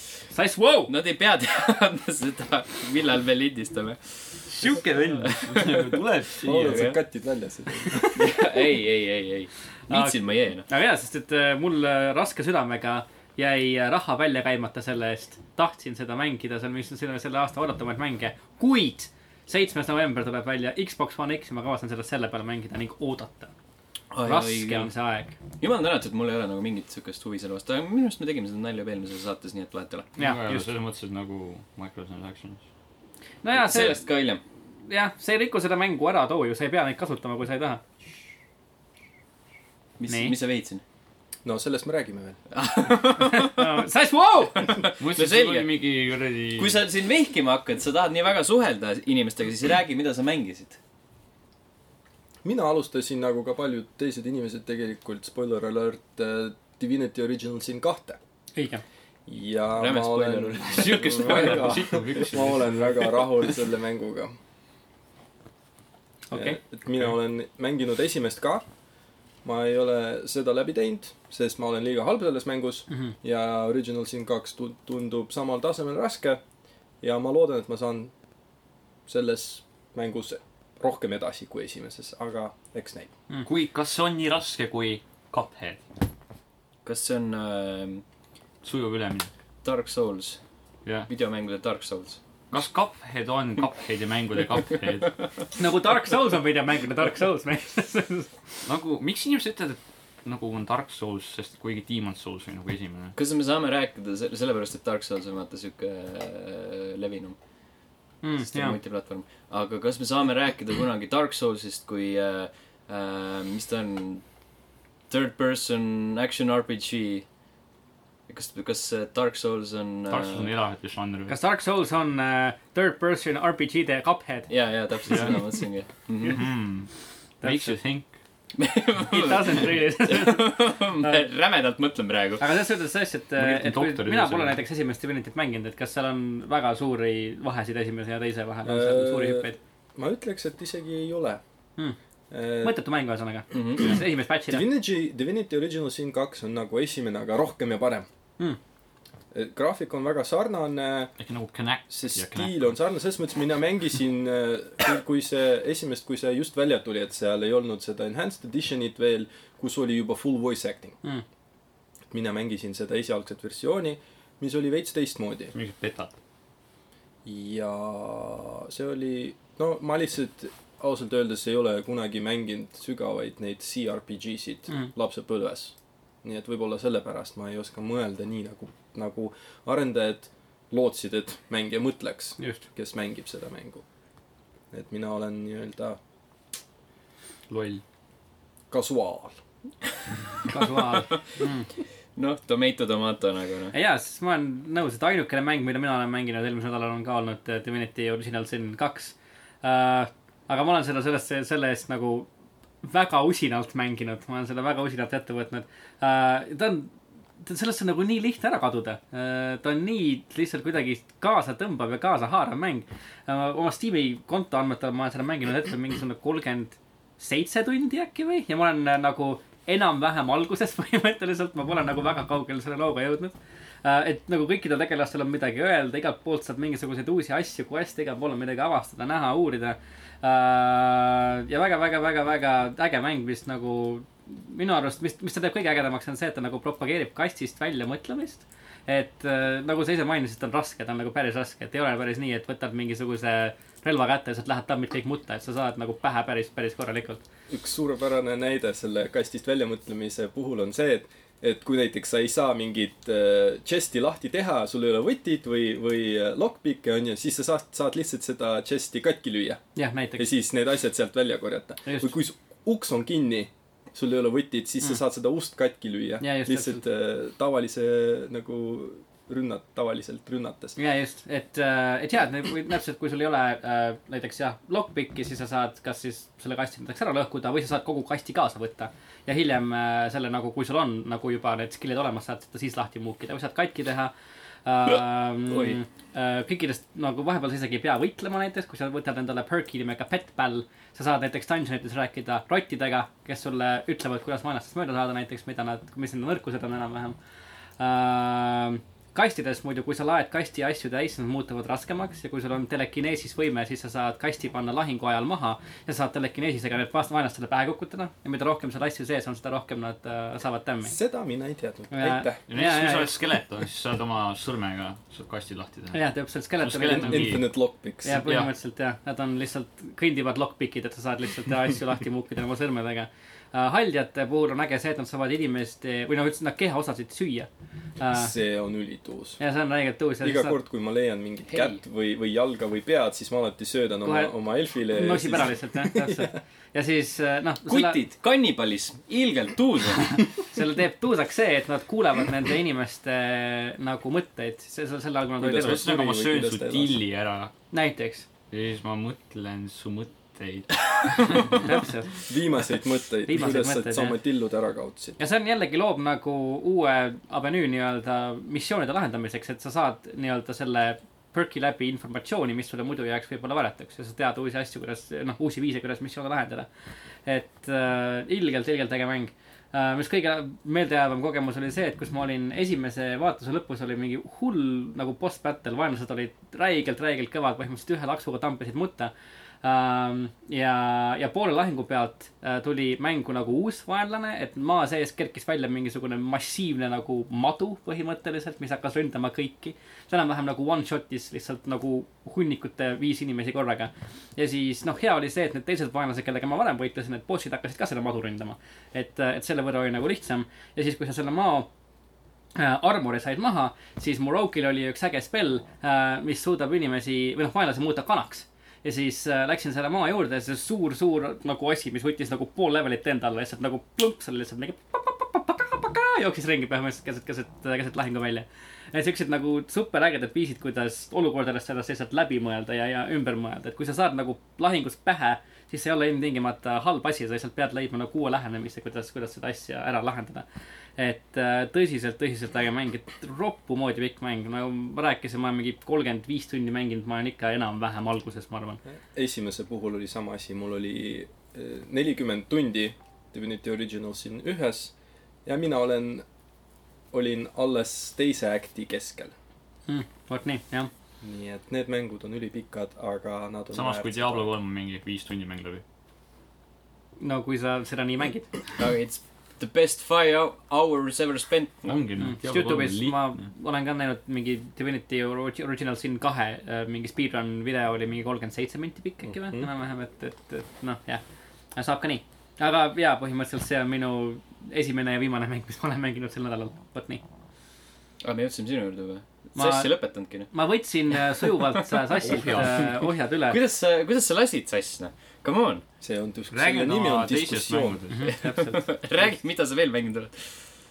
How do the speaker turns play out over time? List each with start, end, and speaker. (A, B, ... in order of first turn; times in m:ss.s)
0:00.3-0:00.9 A
0:00.9-0:07.0 B
0:04.5-0:06.9 C
0:06.4-0:08.5 D
0:08.1-0:10.7 B
0:09.9-0:23.5 A
0:24.1-0:24.9 B
0:24.2-0:25.4 A
0:25.6-0:30.1 B
0:30.2-0:30.7 A
0:30.2-0:32.6 C
0:33.4-0:34.0 A
0:33.5-0:34.4 B
0:34.9-0:37.8 A
0:40.0-0:40.8 B
0:40.1-0:40.4 A
0:41.4-0:42.4 D
0:42.5-0:43.7 B
0:43.2-0:44.8 A
0:44.6-0:45.7 B
0:45.0-0:46.8 C
0:46.6-0:50.8 B
0:52.4-0:58.2 D
0:58.6-0:58.8 A
0:59.3-1:04.4 D
0:59.8-1:02.2 B
1:00.7-1:03.2 C
1:06.3-1:06.6 A
1:06.3-1:08.6 D
1:09.4-1:16.4 D
1:17.0-1:18.1 D
1:19.1-1:23.1 D
1:23.4-1:25.8 C
1:26.8-1:28.0 B
1:28.6-1:29.3 C
1:29.6-1:30.4 B
1:31.1-1:32.2 B
1:32.5-1:35.2 C
1:35.6-1:38.3 A
1:38.6-1:43.1 C
1:43.2-1:47.4 B
1:48.2-1:48.8 A
1:48.4-1:54.2 B
1:55.1-1:57.2 B
1:58.3-2:00.5 B
2:00.1-2:01.4 C
2:01.3-2:04.5 A
2:04.5-2:06.4 B
2:05.1-2:05.4 C
2:06.2-2:06.9 C
2:07.4-2:07.8 A
2:07.4-2:08.1 C
2:08.6-2:12.5 B
2:09.0-2:11.2 A
2:12.4-2:19.6 A
2:13.4-2:14.6 C
2:18.6-2:21.4 D
2:22.3-2:22.8 D
2:22.6-2:24.7 A
2:23.5-2:24.0 B
2:24.5-2:28.1 D
2:29.3-2:31.1 D
2:31.2-2:32.8 C
2:31.9-2:41.0 D
2:42.1-2:45.5 D
2:45.5-2:46.2 C
2:47.2-3:03.8 D
3:04.7-3:06.0 D
3:07.5-3:07.8 C
3:08.7-3:09.4 D
3:10.5-3:11.7 A
3:12.2-3:13.8 B
3:13.7-3:22.3 A
3:22.8-3:26.9 A
3:27.4-4:07.2 A
4:07.5-4:19.6 D
4:19.8-4:20.3 A
4:20.2-4:30.8 D
4:21.9-4:22.1 A
4:26.2-4:26.8 A
4:30.8-4:44.1 A
4:44.6-4:57.2 A
4:45.5-4:45.8 B
4:57.8-5:11.0 A
5:10.9-5:12.4 D
5:11.9-5:13.2 A
5:12.5-5:16.0 C
5:15.9-5:17.4 A
5:16.6-5:17.4 C
5:16.8-5:18.2 D
5:18.0-5:27.5 A
5:18.1-5:18.5 C
5:28.0-5:28.3 A
5:28.1-5:29.4 D
5:29.4-5:30.6 A
5:30.2-5:36.4 D
5:34.0-5:38.0 A
5:37.7-5:40.2 B
5:40.5-5:45.9 A
5:45.4-5:47.0 D
5:45.6-5:47.5 C
5:47.7-5:48.2 A
5:48.5-5:51.6 C
5:51.5-5:52.2 A
5:52.3-5:55.2 D
5:53.3-5:54.2 A
5:55.2-6:06.7 A
6:07.3-6:19.1 A
6:19.6-6:41.7 A
6:42.6-7:10.4 A
7:11.0-7:18.8 A
7:19.1-7:24.9 D
7:25.4-7:26.2 D
7:27.1-7:29.3 D
7:29.9-7:30.9 A
7:31.2-7:34.5 D
7:33.7-7:35.8 C
7:37.2-7:38.5 A
7:38.8-7:42.0 B
7:41.9-7:43.4 C
7:42.2-7:51.2 A
7:49.2-7:49.7 D
7:51.8-7:57.2 A
7:58.2-8:00.5 B
7:59.6-7:59.9 A
8:00.5-8:03.6 A
8:01.2-8:02.0 B
8:02.2-8:02.9 C
8:03.5-8:05.8 B
8:06.0-8:08.0 D
8:06.5-8:08.3 C
8:08.1-8:08.9 A
8:08.3-8:10.6 B